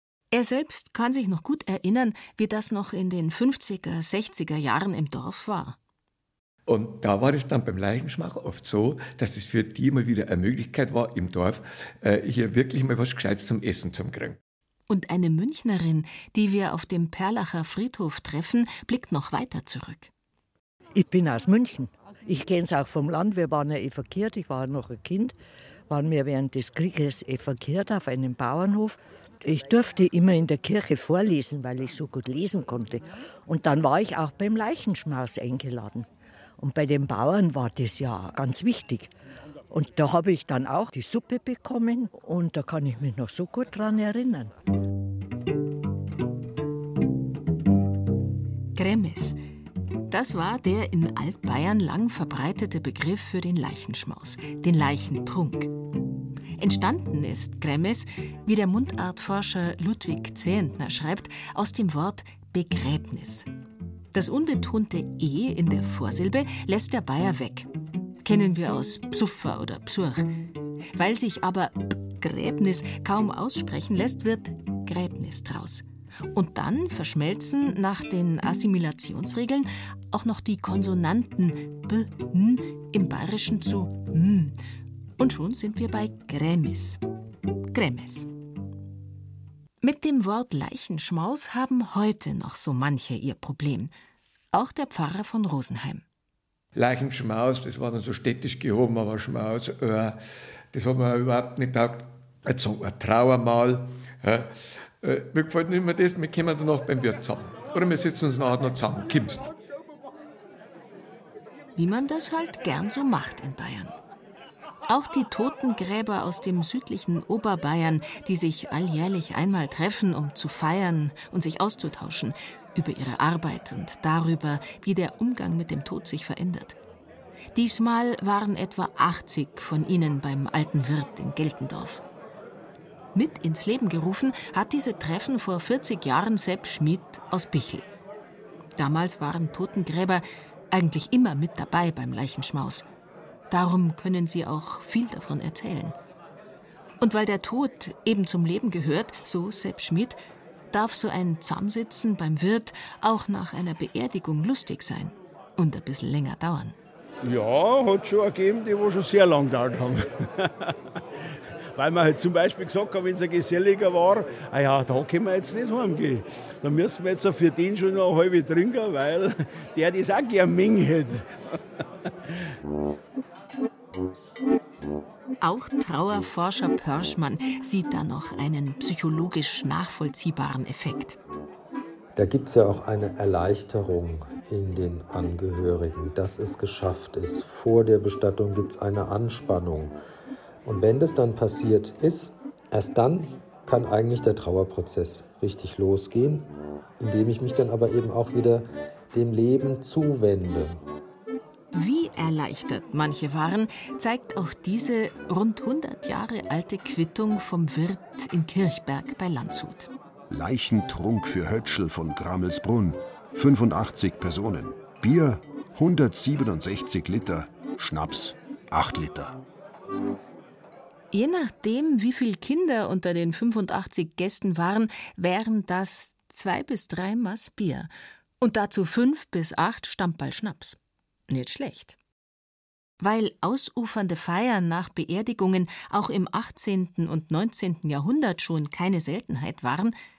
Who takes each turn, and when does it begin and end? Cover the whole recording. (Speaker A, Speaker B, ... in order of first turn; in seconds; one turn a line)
Speaker A: 0.3-5.8
Speaker B: 6.7-14.4
Speaker A: 14.9-20.1
Speaker C: 21.0-25.3
Speaker C: 25.9-36.1
Speaker C: 36.6-39.1
Speaker C: 39.7-44.5
Speaker A: 48.8-49.4
Speaker A: 50.1-55.7
Speaker A: 56.6-63.5
Speaker A: 64.1-67.7
Speaker A: 68.2-70.3
Speaker A: 71.0-84.5
Speaker A: 85.2-87.0
Speaker A: 87.7-88.3
Speaker A: 89.8-93.9
Speaker A: 94.5-96.0
Speaker B: 96.8-100.2
Speaker B: 100.7-109.5
Speaker A: 111.8-114.0
Speaker A: 114.9-126.8
Speaker A: 127.5-132.0
Speaker A: 133.1-137.9
Speaker A: 138.8-142.9
Speaker A: 143.5-145.9
Speaker A: 147.0-150.2
Speaker A: 150.7-156.8
Speaker D: 157.2-160.7
Speaker D: 161.8-171.3
Speaker A: 175.4-181.2
Speaker E: 182.2-189.9
Speaker E: 190.7-200.8
Speaker A: 201.7-209.9
Speaker F: 210.3-219.4
Speaker A: 221.1-230.8
Speaker A: 231.3-232.0
Speaker A: 233.0-239.9